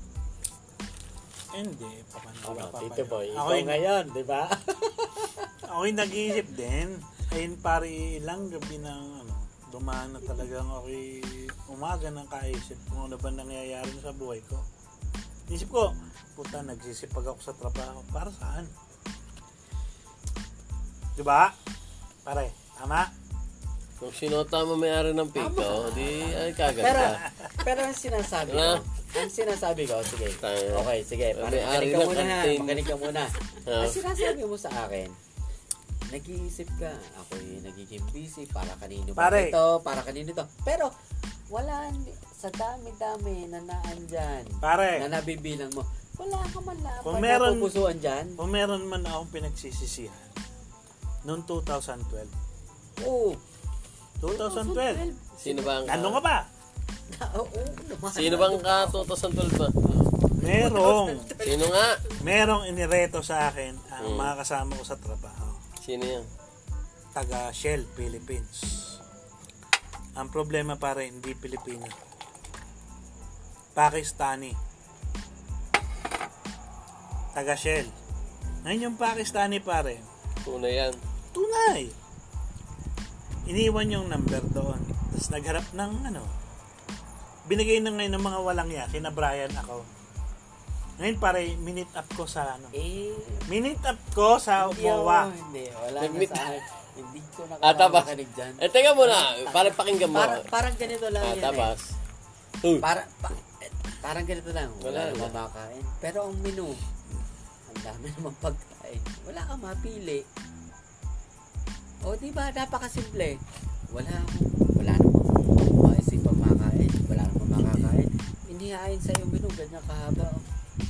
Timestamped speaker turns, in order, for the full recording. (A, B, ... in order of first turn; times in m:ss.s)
0:01.5-0:04.0 A
0:02.4-0:05.5 B
0:05.6-0:14.6 A
0:15.5-0:18.7 A
0:21.2-0:21.5 A
0:22.2-0:23.1 A
0:24.0-0:27.2 C
0:25.4-0:35.2 B
0:28.5-0:28.8 C
0:30.4-0:33.0 C
0:33.6-0:34.0 C
0:36.1-0:40.9 B
0:39.2-0:39.6 A
0:41.5-0:48.4 B
0:44.6-0:45.1 A
0:47.0-0:47.7 A
0:48.4-0:50.3 A
0:51.2-0:52.3 A
0:53.0-0:53.4 B
0:54.2-0:55.0 A
0:54.3-0:55.8 B
0:55.4-0:56.2 C
0:55.8-0:56.5 A
0:57.1-0:59.1 B
0:58.1-0:59.7 C
0:59.8-1:01.9 B
1:00.4-1:01.3 A
1:01.4-1:02.0 C
1:02.2-1:05.6 A
1:04.0-1:04.3 C
1:05.8-1:06.3 C
1:07.1-1:09.0 A
1:10.2-1:11.9 A
1:13.7-1:14.6 A
1:17.3-1:17.9 A
1:18.6-1:20.1 A
1:20.4-1:21.0 C
1:21.3-1:22.0 A
1:23.5-1:26.3 A
1:27.5-1:29.9 A
1:31.0-1:32.7 A
1:32.7-1:33.5 B
1:33.5-1:35.3 A
1:34.6-1:41.7 B
1:36.0-1:36.5 C
1:37.6-1:40.4 C
1:41.2-1:41.9 C
1:42.8-1:46.8 B
1:44.8-1:45.3 C
1:47.7-1:50.2 B
1:52.0-1:53.4 B
1:53.9-2:00.4 B